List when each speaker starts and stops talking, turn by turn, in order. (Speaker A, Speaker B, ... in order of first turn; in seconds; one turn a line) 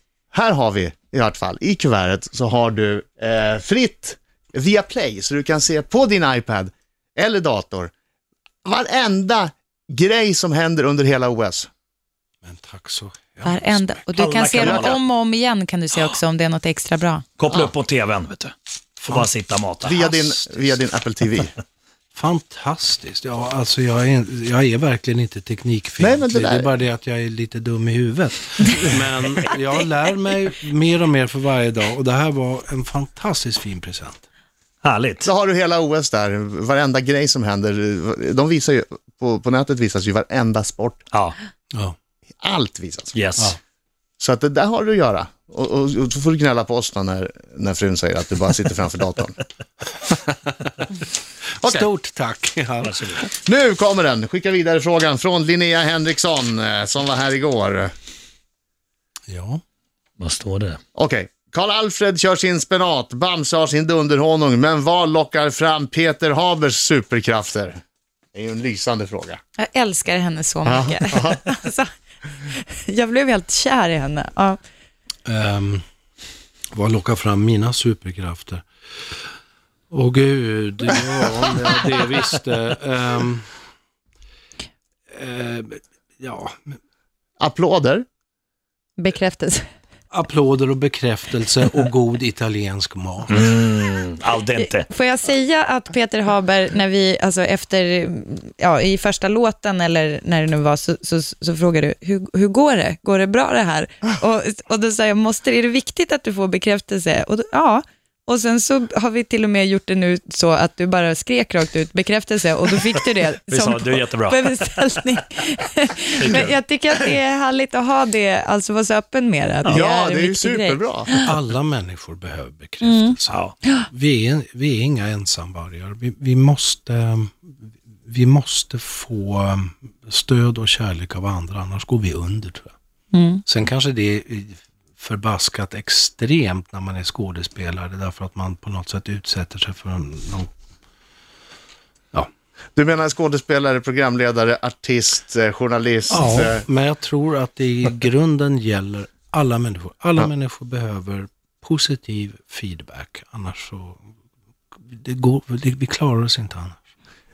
Speaker A: 0.3-7.9
Speaker A: 8.7-11.7
Speaker B: 12.4-14.0
Speaker C: 13.4-17.2
Speaker D: 14.2-15.0
Speaker A: 14.6-14.9
Speaker D: 17.4-20.6
Speaker A: 19.8-21.5
Speaker B: 22.1-34.2
Speaker A: 26.0-26.7
Speaker D: 34.8-35.3
Speaker A: 35.2-41.0
Speaker A: 42.4-43.2
Speaker D: 43.1-43.5
Speaker A: 44.2-49.4
Speaker B: 50.1-50.9
Speaker B: 51.6-53.3
Speaker D: 52.8-53.2
Speaker A: 53.4-57.9
Speaker B: 59.3-59.6
Speaker D: 60.2-60.8
Speaker A: 61.0-67.8
Speaker A: 68.3-69.4
Speaker C: 69.6-71.9
Speaker A: 70.7-71.4
Speaker C: 72.4-74.6
Speaker B: 75.3-75.8
Speaker B: 76.7-78.7
Speaker B: 79.9-83.5
Speaker B: 85.1-86.8
Speaker A: 87.4-88.0
Speaker C: 89.0-89.7
Speaker B: 90.1-93.5
Speaker D: 93.3-94.8
Speaker C: 94.6-121.3
Speaker D: 113.5-114.5
Speaker D: 116.2-116.6
Speaker A: 119.7-121.1
Speaker B: 121.2-127.5
Speaker C: 122.8-123.2
Speaker D: 123.3-123.6
Speaker B: 128.1-132.7
Speaker C: 133.1-133.4
Speaker B: 133.5-140.5
Speaker A: 142.8-146.7
Speaker B: 146.1-154.0
Speaker B: 154.9-156.8